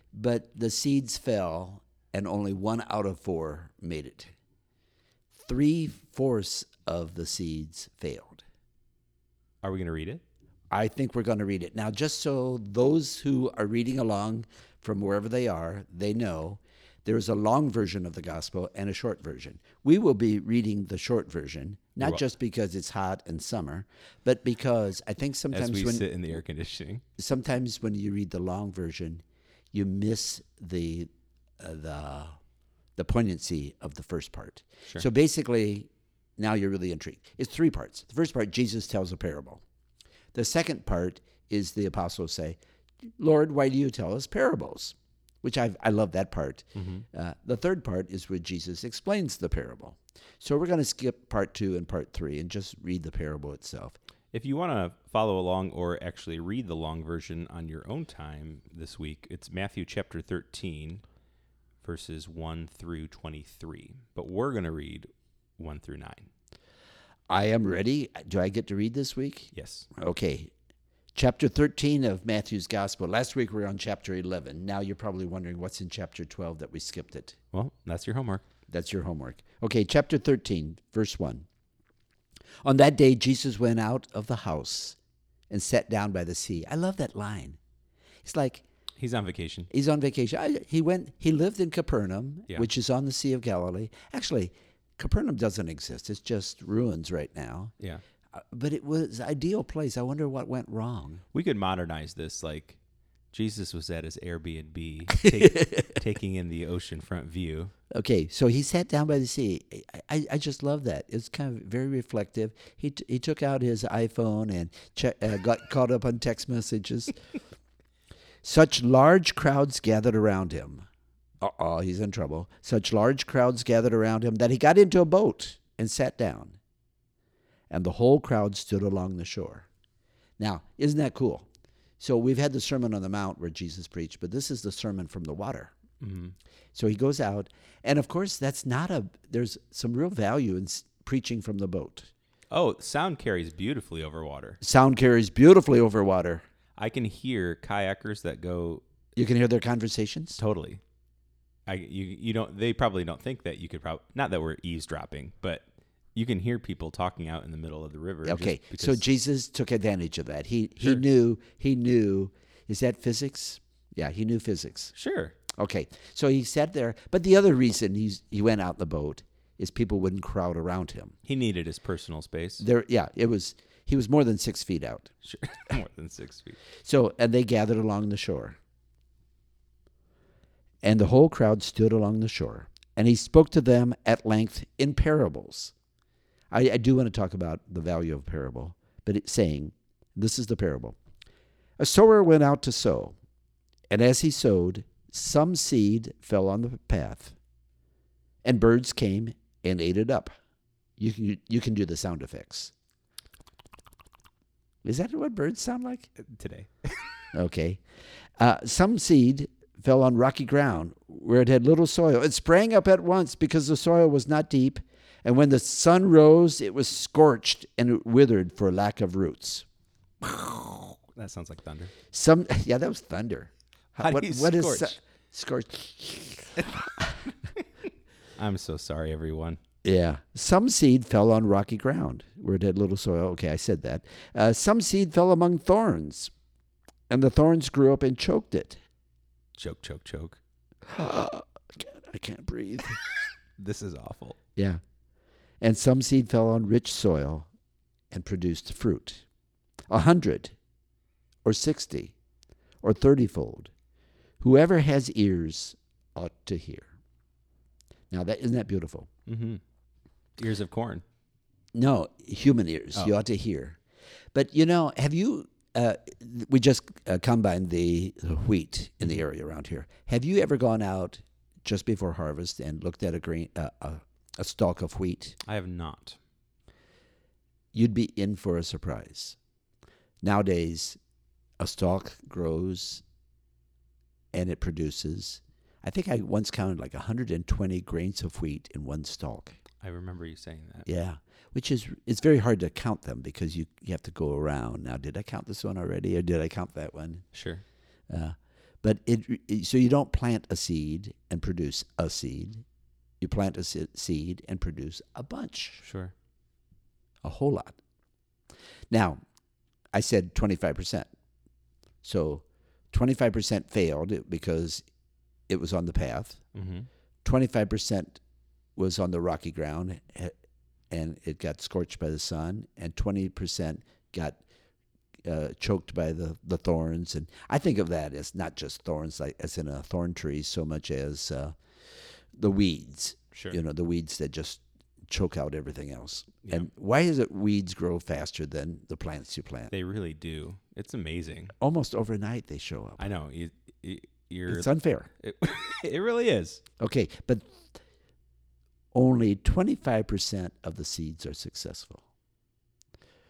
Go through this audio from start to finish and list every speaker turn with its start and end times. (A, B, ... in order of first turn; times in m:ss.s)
0:00.1-0:04.3 A
0:05.3-0:08.4 A
0:09.6-0:10.2 B
0:10.7-0:26.1 A
0:25.5-0:27.0 B
0:27.2-0:31.1 A
0:31.6-0:32.4 A
0:33.0-0:39.6 A
0:40.3-0:42.6 A
0:43.2-0:54.0 A
0:46.8-0:47.0 B
0:54.3-1:01.0 B
1:01.8-1:06.3 B
1:07.3-1:10.5 A
1:09.5-1:09.9 B
1:11.1-1:17.4 A
1:17.5-1:18.4 B
1:18.7-1:21.4 A
1:22.6-1:25.0 A
1:25.5-1:27.6 A
1:28.2-1:28.6 A
1:29.0-1:29.7 B
1:29.7-1:37.7 A
1:38.3-1:41.2 A
1:41.3-1:42.8 B
1:43.3-1:47.7 B
1:45.2-1:45.9 A
1:47.9-1:57.2 A
1:58.4-2:00.8 A
2:01.4-2:06.6 A
2:07.7-2:09.7 A
2:10.4-2:11.5 A
2:12.0-2:15.7 A
2:16.0-2:16.3 B
2:16.7-2:22.1 A
2:22.5-2:24.6 B
2:24.6-2:26.4 A
2:26.8-2:28.8 B
2:29.2-2:30.4 A
2:30.4-2:30.8 B
2:31.7-2:39.0 B
2:38.2-2:44.9 A
2:44.9-2:45.3 B
2:45.5-2:51.2 A
2:51.2-2:52.6 B
2:52.6-2:55.1 A
2:55.2-2:56.6 B
2:56.8-2:58.6 A
3:00.8-3:05.7 A
3:06.5-3:11.0 A
3:11.8-3:13.1 A
3:13.9-3:17.3 A
3:18.4-3:20.3 A
3:21.0-3:22.7 A
3:24.8-3:26.1 A
3:26.2-3:27.1 B
3:27.3-3:27.8 A
3:28.4-3:39.6 A
3:40.2-3:40.9 A
3:41.1-3:41.9 B
3:42.1-3:47.2 A
3:44.0-3:45.0 B
3:48.4-3:49.6 B
3:49.8-3:56.3 A
3:57.1-3:58.8 A
3:59.6-4:00.4 B
4:00.8-4:03.0 A
4:03.6-4:04.4 B
4:05.6-4:07.5 A
4:08.1-4:09.2 A
4:09.9-4:10.5 A
4:11.4-4:12.1 A
4:12.8-4:13.7 A
4:14.4-4:16.9 A
4:18.1-4:19.1 A
4:19.3-4:19.6 B
4:20.4-4:21.0 B
4:21.7-4:23.8 A
4:24.3-4:35.4 A
4:35.4-4:36.2 B
4:37.7-4:39.4 A
4:40.2-4:41.0 A
4:41.6-4:43.0 A
4:44.3-4:49.6 A
4:49.8-4:50.9 B
4:50.8-4:57.2 A
4:57.3-4:57.6 B
4:58.1-5:02.6 A
5:03.2-5:05.8 A
5:05.8-5:06.1 B
5:07.2-5:07.8 A
5:08.9-5:09.2 A
5:09.9-5:11.1 A
5:12.0-5:14.8 A
5:15.5-5:16.4 A
5:16.5-5:16.9 B
5:17.2-5:18.2 A
5:18.8-5:20.3 A
5:20.9-5:24.4 A
5:25.2-5:31.6 A
5:32.3-5:39.7 A
5:33.3-5:33.6 B
5:39.7-5:41.5 B
5:41.6-5:43.0 A
5:43.0-5:46.6 B
5:44.5-5:45.1 A
5:46.8-5:47.6 A
5:48.9-5:52.0 A